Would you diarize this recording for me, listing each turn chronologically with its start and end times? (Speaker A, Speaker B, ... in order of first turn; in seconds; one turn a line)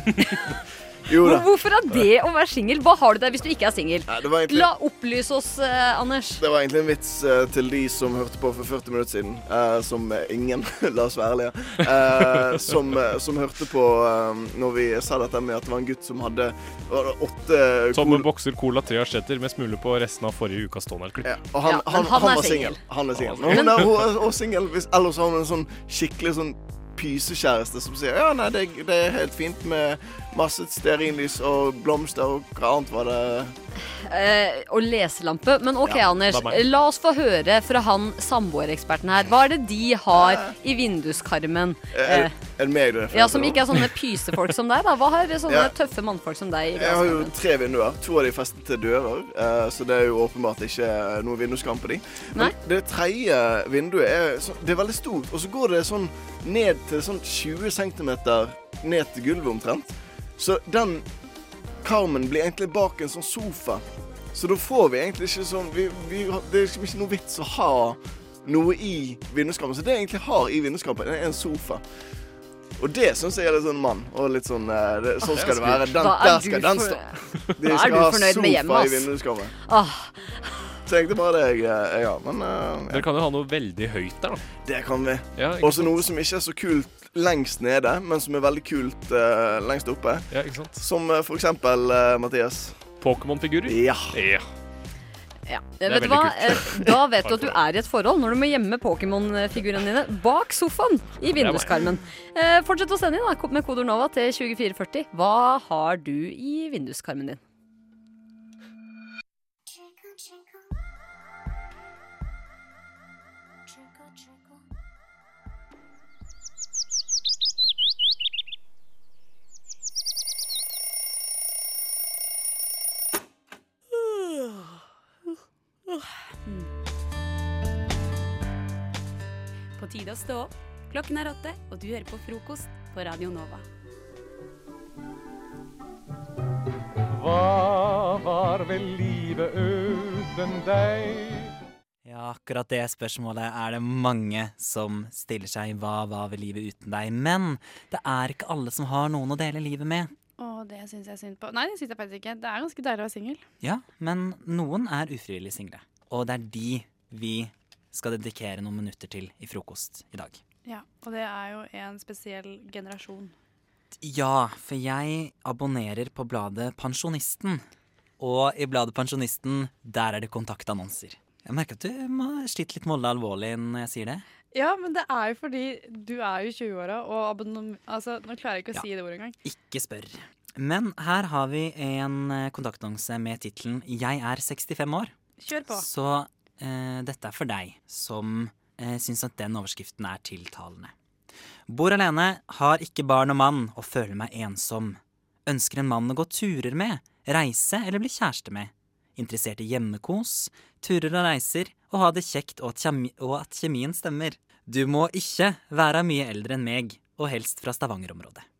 Speaker A: 1.1-1.5
Speaker B: 1.2-6.4
Speaker A: 4.1-4.7
Speaker A: 6.4-18.3
Speaker C: 17.9-21.3
Speaker A: 21.2-33.5
Speaker B: 21.6-22.8
Speaker C: 23.2-23.9
Speaker B: 34.0-42.3
Speaker C: 36.3-36.6
Speaker A: 40.1-40.5
Speaker A: 41.9-43.8
Speaker B: 43.1-47.4
Speaker A: 45.5-45.7
Speaker A: 46.8-61.0
Speaker A: 61.8-71.8
Speaker A: 72.8-77.0
Speaker C: 75.4-75.8
Speaker B: 75.9-79.1
Speaker A: 77.6-79.5
Speaker B: 79.7-80.8
Speaker A: 80.9-83.1
Speaker C: 82.9-84.4
Speaker A: 84.7-92.8
Speaker C: 85.4-86.0
Speaker C: 90.3-90.8
Speaker C: 93.0-94.4
Speaker A: 93.7-94.2
Speaker B: 95.5-107.4
Speaker C: 95.8-97.6
Speaker C: 101.3-101.8
Speaker D: 129.8-133.7
Speaker E: 137.1-141.5
Speaker F: 142.1-150.1
Speaker G: 150.4-153.4
Speaker F: 153.6-160.4
Speaker G: 160.7-163.3
Speaker F: 164.0-167.6
Speaker F: 168.2-174.2
Speaker G: 174.5-179.4
Speaker F: 179.4-185.1
Speaker G: 185.4-185.9
Speaker F: 185.7-190.9
Speaker F: 191.7-208.4